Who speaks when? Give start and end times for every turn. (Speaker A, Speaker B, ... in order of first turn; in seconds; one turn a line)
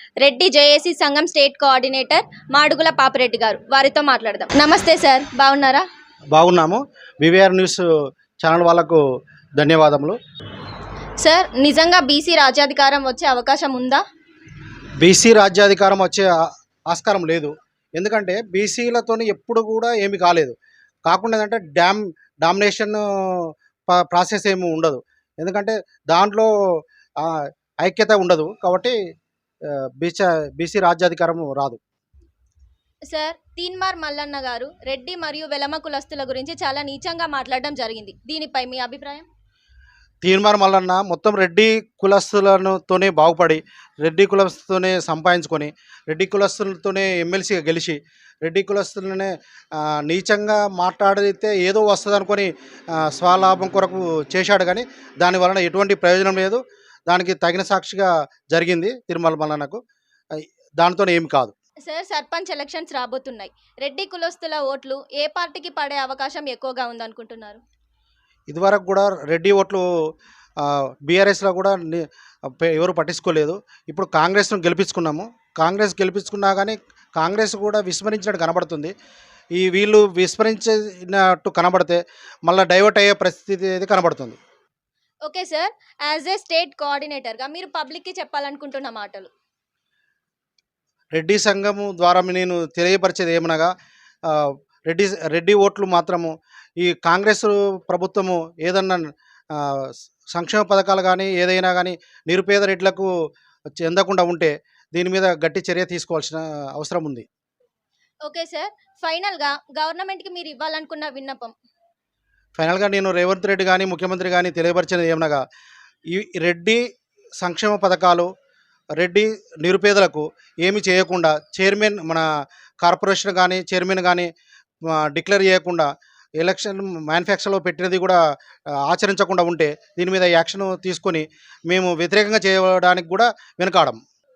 Speaker A: 0.2-5.8
Speaker B: 6.3-7.8
Speaker B: 8.4-9.0
Speaker B: 9.6-10.2
Speaker A: 11.2-14.0
Speaker B: 15.0-16.3
Speaker B: 16.9-20.5
Speaker B: 21.1-26.5
Speaker B: 27.2-28.9
Speaker B: 29.7-31.8
Speaker A: 33.1-39.3
Speaker B: 40.2-59.8
Speaker B: 60.4-61.5
Speaker A: 61.9-67.6
Speaker B: 68.5-69.8
Speaker B: 70.6-78.9
Speaker B: 79.6-84.4
Speaker A: 85.3-89.3
Speaker B: 91.2-93.7
Speaker B: 94.3-103.1
Speaker B: 103.8-107.2
Speaker A: 108.2-111.5
Speaker B: 112.6-115.4
Speaker B: 116.1-116.8
Speaker B: 117.4-118.3
Speaker B: 119.0-122.2
Speaker B: 122.8-124.3
Speaker B: 124.9-125.9
Speaker B: 126.4-128.2
Speaker B: 128.9-134.0